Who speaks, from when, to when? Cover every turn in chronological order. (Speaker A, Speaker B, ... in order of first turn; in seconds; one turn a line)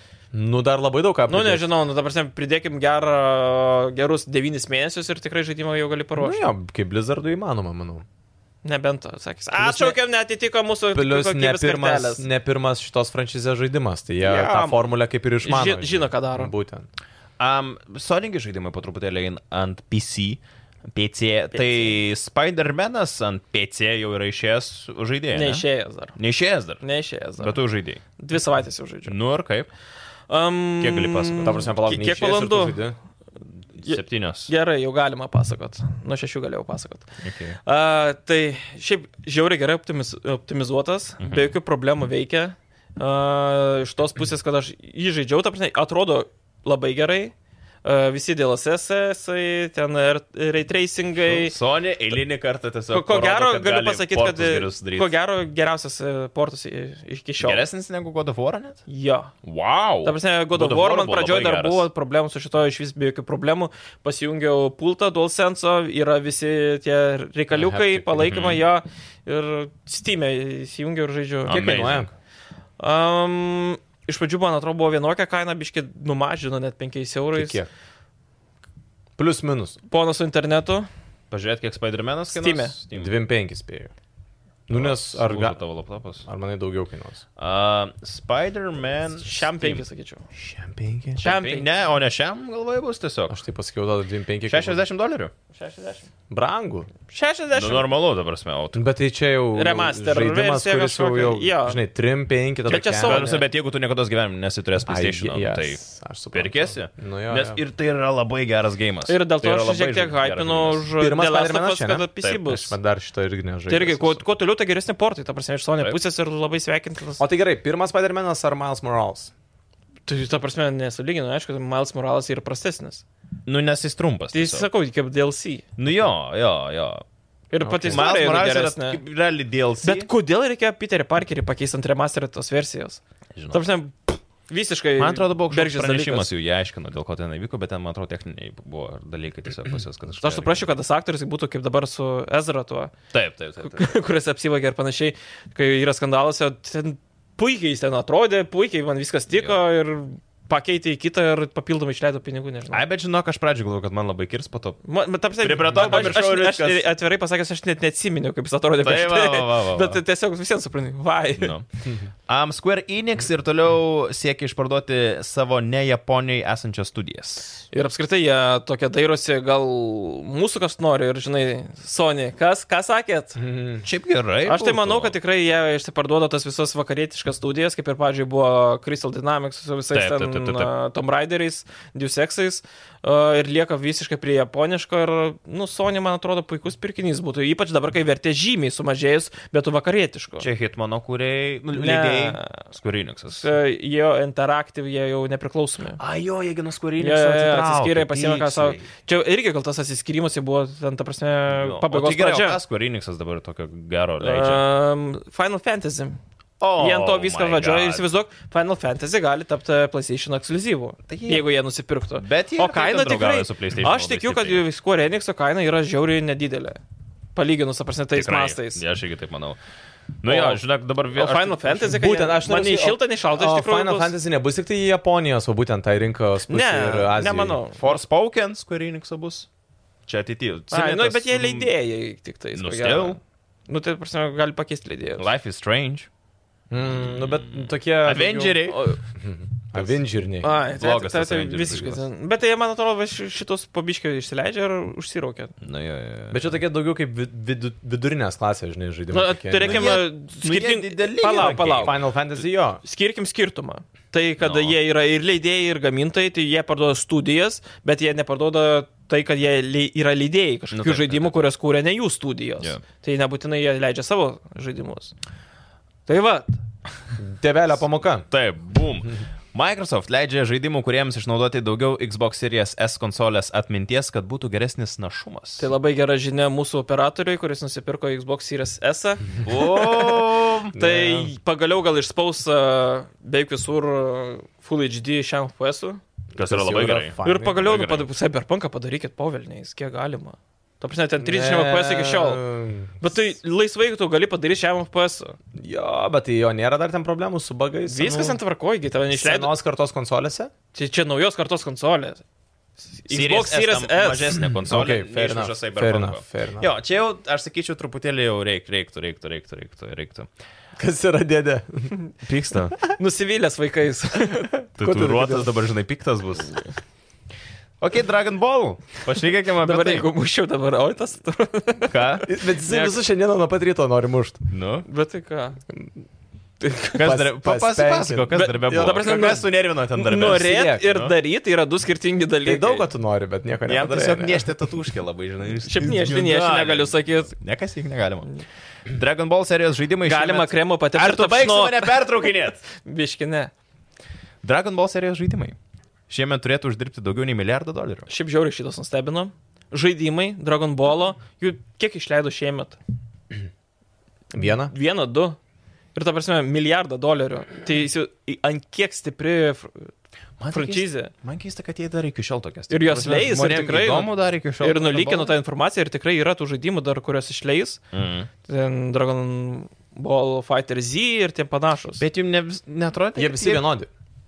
Speaker A: 0.3-1.7
Speaker B: 1.3-6.4
Speaker A: 6.2-8.0
Speaker B: 8.6-12.2
Speaker A: 9.6-10.0
Speaker A: 10.9-16.9
Speaker B: 14.2-14.9
Speaker B: 15.4-16.5
Speaker C: 17.4-20.4
Speaker C: 20.9-26.8
Speaker B: 25.3-26.2
Speaker B: 26.8-27.6
Speaker C: 27.4-28.0
Speaker B: 28.2-29.1
Speaker C: 29.1-29.7
Speaker B: 30.3-32.8
Speaker C: 30.8-31.6
Speaker A: 31.4-33.0
Speaker C: 33.8-34.5
Speaker B: 33.8-37.0
Speaker C: 37.2-37.6
Speaker B: 37.6-47.3
Speaker C: 41.2-41.5
Speaker B: 47.8-51.5
Speaker C: 51.2-55.1
Speaker B: 52.9-57.6
Speaker C: 57.4-58.8
Speaker B: 58.9-59.3
Speaker C: 59.4-61.9
Speaker B: 60.0-71.7
Speaker A: 67.5-68.2
Speaker C: 68.1-68.6
Speaker C: 71.5-72.1
Speaker A: 71.5-72.1
Speaker B: 72.8-77.6
Speaker A: 77.3-77.7
Speaker A: 79.2-79.8
Speaker B: 79.9-80.9
Speaker C: 81.3-83.1
Speaker B: 82.3-82.7
Speaker A: 82.9-83.9
Speaker A: 84.7-85.6
Speaker C: 84.7-86.2
Speaker A: 86.2-87.2
Speaker C: 87.4-89.8
Speaker B: 89.2-90.2
Speaker A: 90.3-91.2
Speaker C: 91.2-93.4
Speaker B: 91.2-91.7
Speaker A: 93.3-94.8
Speaker C: 94.5-95.3
Speaker B: 95.5-96.0
Speaker A: 96.3-96.9
Speaker B: 97.1-97.9
Speaker C: 97.5-98.8
Speaker A: 98.7-103.3
Speaker B: 99.5-101.8
Speaker B: 102.7-103.4
Speaker C: 103.0-105.8
Speaker A: 104.8-107.6
Speaker C: 106.3-110.8
Speaker B: 109.1-112.8
Speaker A: 111.0-114.2
Speaker C: 112.2-112.5
Speaker B: 113.7-117.2
Speaker A: 117.2-119.3
Speaker B: 120.1-123.0
Speaker C: 123.5-124.7
Speaker B: 124.3-125.6
Speaker C: 125.8-127.0
Speaker B: 127.5-129.0
Speaker A: 127.6-128.1
Speaker C: 127.9-130.1
Speaker B: 129.8-133.0
Speaker C: 133.3-133.6
Speaker B: 133.5-136.3
Speaker C: 135.0-140.7
Speaker B: 140.2-142.9
Speaker C: 143.1-143.8
Speaker B: 143.6-152.8
Speaker C: 152.7-154.8
Speaker B: 154.8-161.5
Speaker C: 155.4-156.8
Speaker C: 158.8-160.0
Speaker C: 161.3-161.7
Speaker C: 162.3-167.5
Speaker B: 167.7-173.4
Speaker A: 173.4-173.8
Speaker C: 173.8-175.1
Speaker B: 174.4-190.5
Speaker C: 179.9-180.7
Speaker C: 190.4-193.5
Speaker B: 191.7-192.6
Speaker B: 193.4-196.0
Speaker C: 196.0-198.9
Speaker B: 197.0-202.6
Speaker C: 201.5-204.6
Speaker B: 204.2-206.2
Speaker C: 206.6-208.0
Speaker B: 206.8-216.8
Speaker C: 211.1-211.4
Speaker C: 212.1-214.6
Speaker B: 217.3-218.8
Speaker C: 218.1-219.6
Speaker C: 220.2-221.9
Speaker B: 220.2-220.6
Speaker B: 221.1-224.1
Speaker A: 221.8-227.6
Speaker B: 226.5-228.0
Speaker C: 227.8-229.5
Speaker C: 230.1-231.7
Speaker B: 230.7-235.2
Speaker C: 232.5-233.2
Speaker C: 235.2-236.1
Speaker A: 236.7-240.6
Speaker C: 237.1-238.8
Speaker B: 238.7-239.0
Speaker B: 240.4-245.5
Speaker C: 240.7-242.0
Speaker C: 245.6-246.5
Speaker A: 246.3-249.9
Speaker B: 249.1-252.0
Speaker C: 249.6-251.9
Speaker A: 251.3-252.8
Speaker B: 252.8-265.1
Speaker C: 254.4-254.8
Speaker C: 260.7-261.3
Speaker B: 266.1-266.6
Speaker A: 267.2-268.3
Speaker C: 268.3-275.7
Speaker B: 275.6-280.1
Speaker C: 279.4-280.7
Speaker A: 280.7-281.3
Speaker B: 280.7-286.0
Speaker A: 286.3-287.7
Speaker C: 286.4-288.1
Speaker B: 287.2-292.4
Speaker A: 291.2-293.0
Speaker B: 293.0-295.4
Speaker A: 295.6-298.4
Speaker B: 297.9-299.5
Speaker A: 299.1-300.5
Speaker B: 300.7-302.2
Speaker B: 302.9-304.4
Speaker C: 303.1-310.3
Speaker A: 304.6-306.7
Speaker A: 310.8-311.9
Speaker C: 312.2-312.8
Speaker B: 312.9-314.7
Speaker C: 314.8-316.6
Speaker A: 314.8-315.5
Speaker C: 317.8-320.1
Speaker B: 319.6-322.9
Speaker C: 321.9-322.3
Speaker A: 322.2-324.4
Speaker C: 324.5-324.9
Speaker B: 324.9-325.6
Speaker B: 326.6-327.0
Speaker A: 326.9-329.3
Speaker C: 326.9-331.1
Speaker B: 328.3-332.8
Speaker A: 330.2-330.8
Speaker A: 332.4-334.5
Speaker C: 333.7-338.3
Speaker B: 335.7-337.4
Speaker C: 338.9-342.6
Speaker B: 340.0-342.2
Speaker B: 342.8-343.5
Speaker C: 344.4-345.6
Speaker C: 346.1-348.1
Speaker B: 348.1-352.8
Speaker A: 354.3-354.7
Speaker B: 354.7-355.4
Speaker B: 355.9-359.9
Speaker C: 360.4-365.3
Speaker B: 360.5-361.1
Speaker B: 362.7-367.8
Speaker A: 362.8-364.1
Speaker C: 367.9-368.3
Speaker B: 368.4-372.0
Speaker C: 372.0-373.6
Speaker A: 373.1-373.9